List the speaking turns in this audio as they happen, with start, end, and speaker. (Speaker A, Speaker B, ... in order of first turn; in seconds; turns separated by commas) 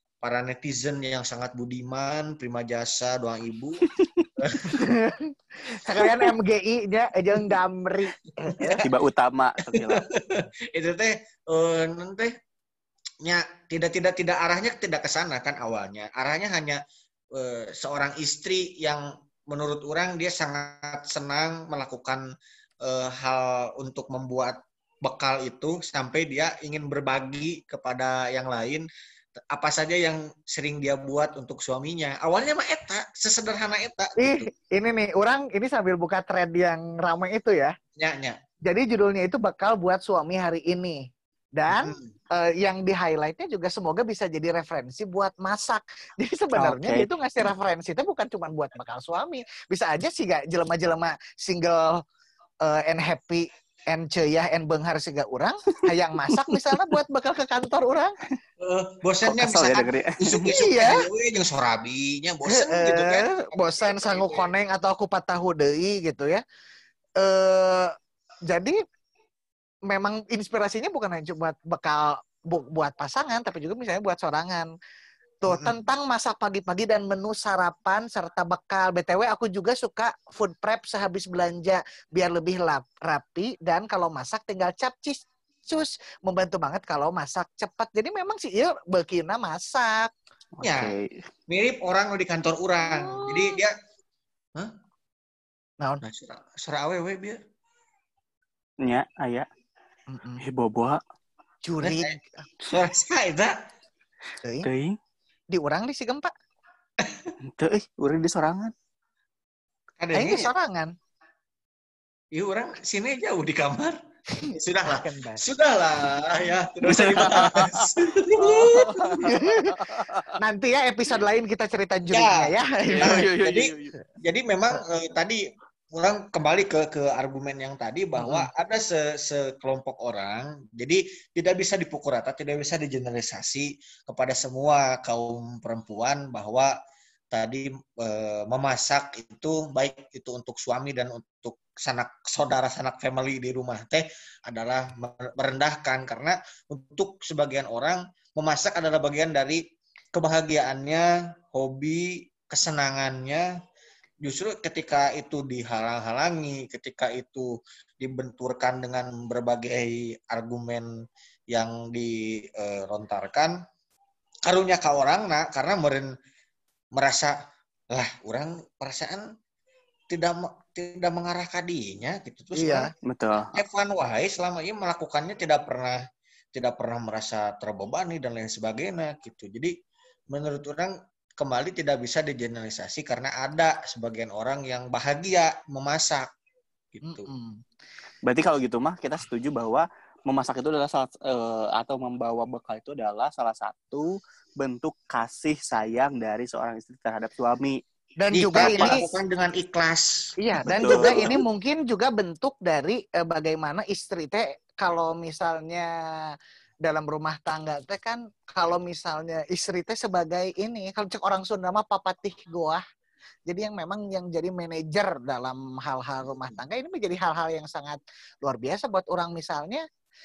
Speaker A: 0.2-3.8, Speaker A: 4.4-4.8, Speaker B: 4.7-8.8, Speaker C: 8.8-10.1, Speaker A: 9.7-12.3, Speaker A: 13.2-16.8, Speaker A: 17.4-22.2, Speaker A: 22.8-28.9, Speaker A: 29.5-34.5, Speaker B: 34.2-37.7, Speaker A: 38.0-38.4, Speaker B: 38.6-41.0, Speaker B: 41.6-52.0, Speaker A: 41.7-42.1, Speaker C: 46.6-47.1, Speaker B: 52.6-58.1, Speaker A: 58.6-64.5, Speaker C: 59.3-60.2, Speaker B: 60.4-61.1, Speaker B: 62.5-66.4, Speaker B: 67.2-67.9, Speaker B: 68.5-68.8, Speaker B: 69.9-74.7, Speaker B: 75.4-90.1, Speaker A: 75.5-75.8, Speaker C: 90.5-91.1, Speaker A: 90.6-90.9, Speaker A: 91.5-93.7, Speaker B: 92.8-93.6, Speaker A: 96.0-97.4, Speaker C: 98.8-99.5, Speaker B: 100.1-100.4, Speaker C: 100.4-101.0, Speaker B: 101.6-102.4, Speaker A: 101.8-103.5, Speaker B: 104.4-104.7, Speaker C: 104.6-105.0, Speaker B: 105.5-106.3, Speaker C: 107.5-108.7, Speaker A: 110.0-110.5, Speaker B: 110.1-110.9, Speaker A: 112.3-114.0, Speaker A: 114.5-119.3, Speaker B: 114.9-115.4, Speaker C: 116.8-120.3, Speaker B: 119.2-119.8, Speaker B: 120.4-123.2, Speaker A: 122.1-125.4, Speaker C: 122.9-123.9, Speaker A: 125.9-136.7, Speaker B: 128.2-128.5, Speaker A: 137.3-149.6, Speaker A: 150.1-153.5, Speaker A: 154.2-160.9, Speaker A: 161.5-163.6, Speaker A: 164.4-166.1, Speaker A: 166.9-167.3, Speaker A: 167.9-169.2, Speaker A: 170.1-176.0, Speaker B: 172.5-172.9, Speaker C: 173.1-173.5, Speaker A: 176.5-179.7, Speaker A: 180.3-186.3, Speaker A: 186.9-187.3, Speaker B: 187.1-187.6, Speaker C: 188.3-197.8, Speaker B: 198.2-199.1, Speaker A: 198.3-201.4, Speaker C: 198.6-199.0, Speaker B: 200.4-205.9, Speaker C: 200.7-201.4, Speaker B: 206.8-212.8, Speaker B: 213.5-219.8, Speaker A: 216.3-216.6